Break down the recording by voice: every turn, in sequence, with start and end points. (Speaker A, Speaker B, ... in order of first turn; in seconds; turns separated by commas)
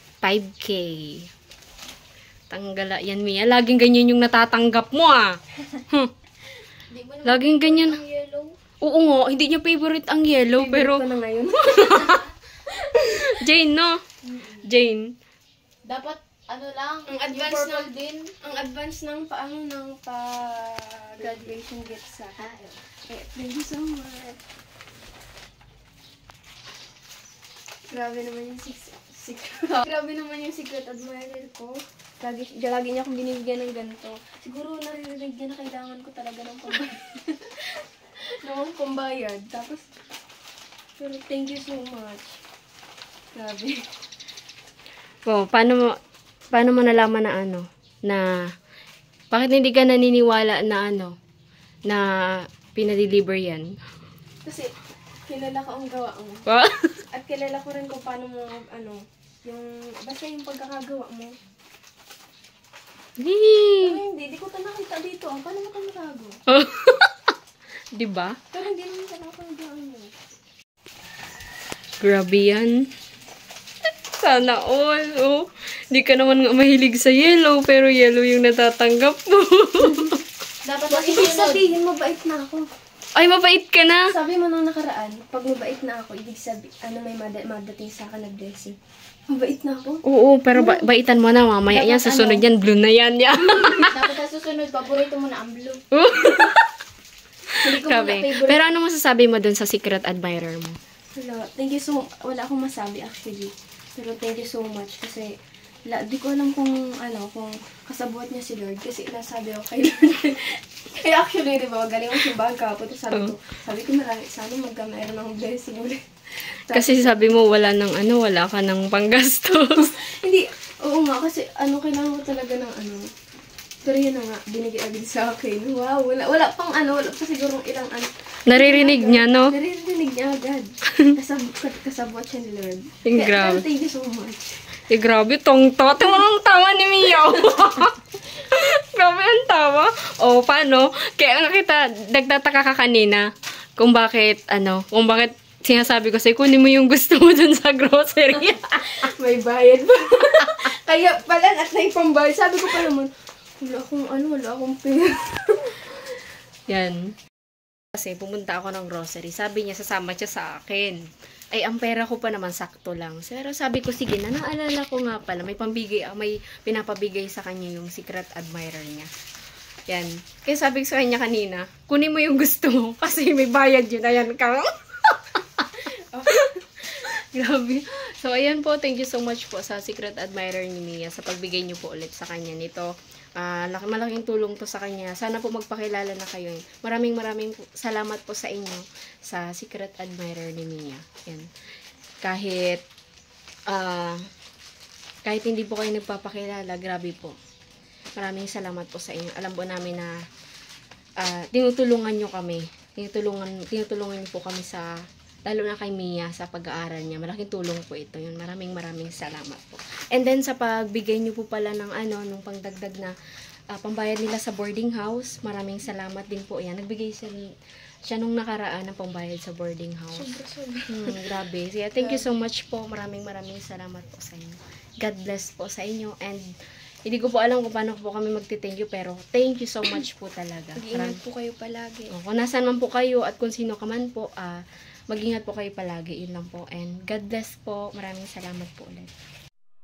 Speaker A: 0.2-1.3, Speaker A: 2.5-6.1, Speaker B: 6.9-8.5, Speaker A: 7.2-8.0, Speaker A: 8.8-11.1, Speaker C: 10.6-13.3, Speaker A: 11.6-12.2, Speaker A: 13.0-14.0, Speaker A: 14.6-15.1, Speaker B: 15.9-18.3, Speaker C: 17.1-22.4, Speaker B: 21.2-21.6, Speaker B: 22.4-22.8, Speaker C: 23.1-24.4, Speaker C: 27.9-39.9, Speaker C: 41.0-42.4, Speaker C: 43.4-43.9, Speaker A: 45.3-46.0, Speaker A: 46.5-48.3, Speaker A: 49.3-51.2, Speaker A: 51.9-53.8, Speaker C: 54.5-54.7, Speaker C: 55.3-56.5, Speaker A: 56.5-57.0, Speaker C: 57.1-61.4, Speaker A: 63.2-64.0, Speaker C: 63.8-66.4, Speaker A: 66.5-67.2, Speaker A: 68.0-68.4, Speaker C: 68.5-70.1, Speaker A: 72.0-72.9, Speaker A: 74.2-80.2, Speaker B: 80.7-81.7, Speaker C: 80.8-82.7, Speaker A: 83.2-84.1, Speaker C: 84.1-88.8, Speaker C: 89.3-90.9, Speaker A: 90.0-94.0, Speaker C: 91.7-92.5, Speaker B: 93.8-95.8, Speaker A: 95.9-96.7, Speaker A: 97.5-100.8, Speaker B: 97.6-98.6, Speaker C: 101.2-105.3, Speaker C: 105.9-117.3, Speaker A: 116.7-119.9, Speaker C: 119.8-123.1, Speaker C: 123.8-134.6, Speaker A: 128.5-129.6, Speaker A: 133.1-133.6, Speaker A: 134.9-149.1, Speaker C: 149.0-153.1, Speaker C: 153.6-155.9, Speaker A: 156.7-157.2, Speaker A: 157.9-169.1, Speaker A: 169.9-191.5, Speaker C: 176.1-176.5, Speaker A: 192.2-192.8, Speaker A: 193.7-194.2, Speaker A: 195.2-197.4, Speaker A: 198.2-200.1, Speaker A: 201.2-204.9, Speaker A: 205.5-213.2, Speaker A: 213.7-217.4, Speaker A: 218.1-220.3, Speaker C: 220.2-221.4, Speaker A: 220.9-226.4, Speaker C: 222.0-222.2, Speaker A: 227.1-231.2, Speaker C: 230.8-232.1, Speaker A: 232.1-239.1